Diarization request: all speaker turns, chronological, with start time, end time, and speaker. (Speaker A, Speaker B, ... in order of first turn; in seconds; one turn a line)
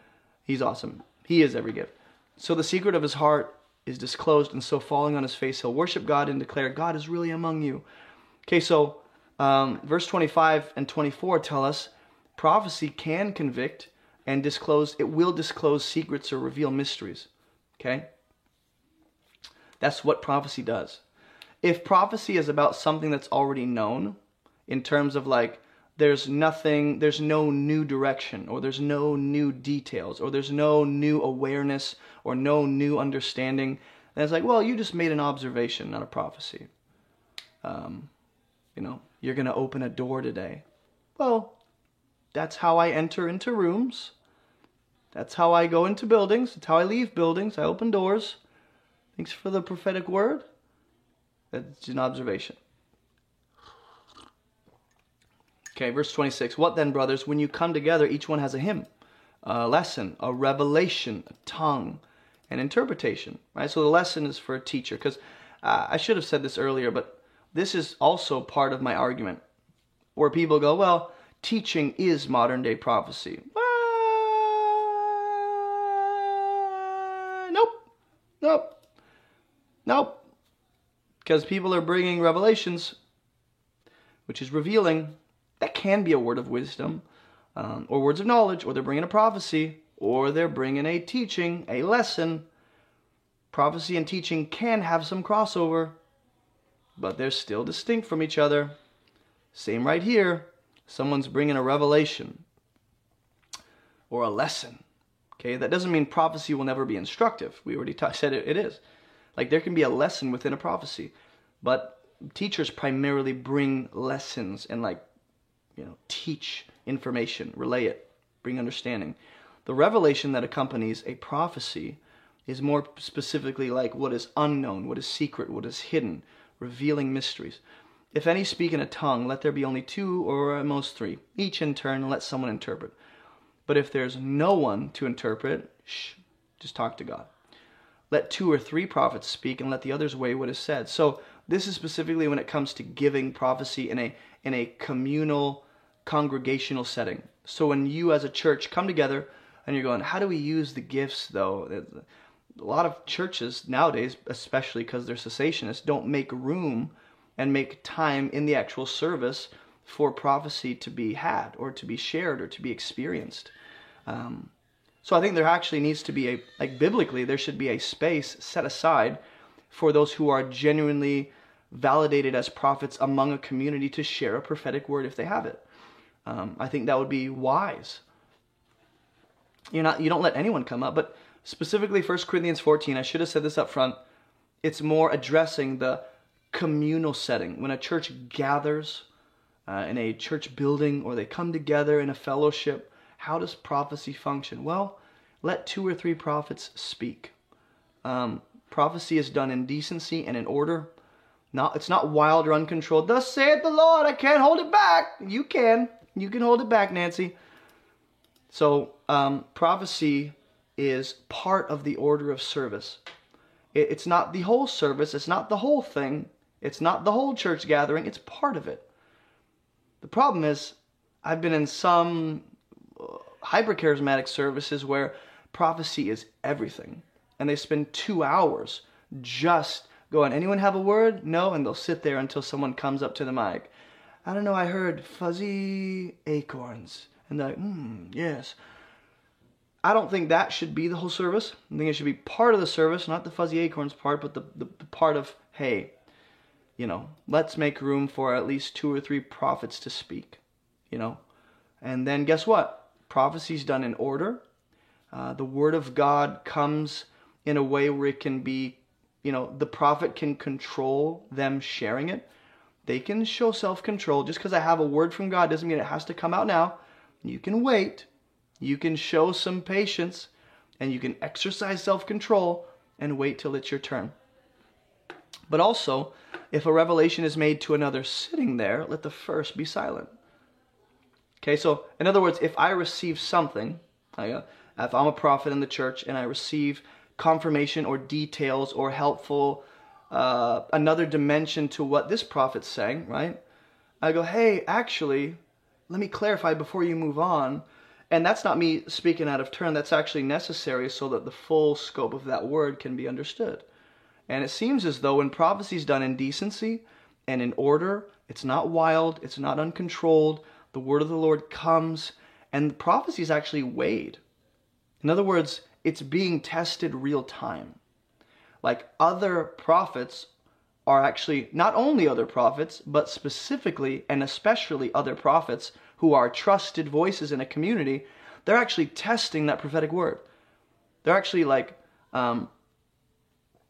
Speaker A: 0.5-7.8
Speaker A: 8.4-18.1
Speaker A: 19.8-21.0
Speaker A: 21.6-36.7
Speaker A: 37.6-38.1
Speaker A: 38.7-40.6
Speaker A: 41.2-41.6
Speaker A: 42.3-44.1
Speaker A: 45.1-48.4
Speaker A: 49.1-50.4
Speaker A: 51.5-52.6
Speaker A: 55.7-58.9
Speaker A: 59.4-69.4
Speaker A: 70.2-77.9
Speaker A: 78.4-78.8
Speaker A: 79.8-80.2
Speaker A: 81.2-83.0
Speaker A: 84.3-92.5
Speaker A: 93.5-96.0
Speaker A: 97.0-98.8
Speaker A: 99.5-102.4
Speaker A: 104.1-104.8
Speaker A: 105.4-108.8
Speaker A: 109.3-115.0
Speaker A: 115.8-127.6
Speaker A: 128.1-132.9
Speaker A: 133.7-137.3
Speaker A: 138.1-152.0
Speaker A: 152.6-163.5
Speaker A: 164.1-164.5
Speaker A: 165.0-169.2
Speaker A: 169.7-175.6
Speaker A: 176.2-178.0
Speaker A: 179.7-184.0
Speaker A: 184.6-189.1
Speaker A: 189.7-197.3
Speaker A: 198.0-200.9
Speaker A: 201.5-207.3
Speaker A: 208.5-213.0
Speaker A: 213.7-218.8
Speaker A: 220.0-233.7
Speaker A: 234.2-238.6
Speaker A: 239.8-245.9
Speaker A: 246.8-251.2
Speaker A: 251.8-254.4
Speaker A: 255.1-262.2
Speaker A: 262.9-268.1
Speaker A: 268.6-274.1
Speaker A: 275.5-280.1
Speaker A: 281.4-293.4
Speaker A: 294.0-303.6
Speaker A: 304.3-314.2
Speaker A: 315.0-317.8
Speaker A: 318.6-320.3
Speaker A: 320.9-330.2
Speaker A: 331.0-332.5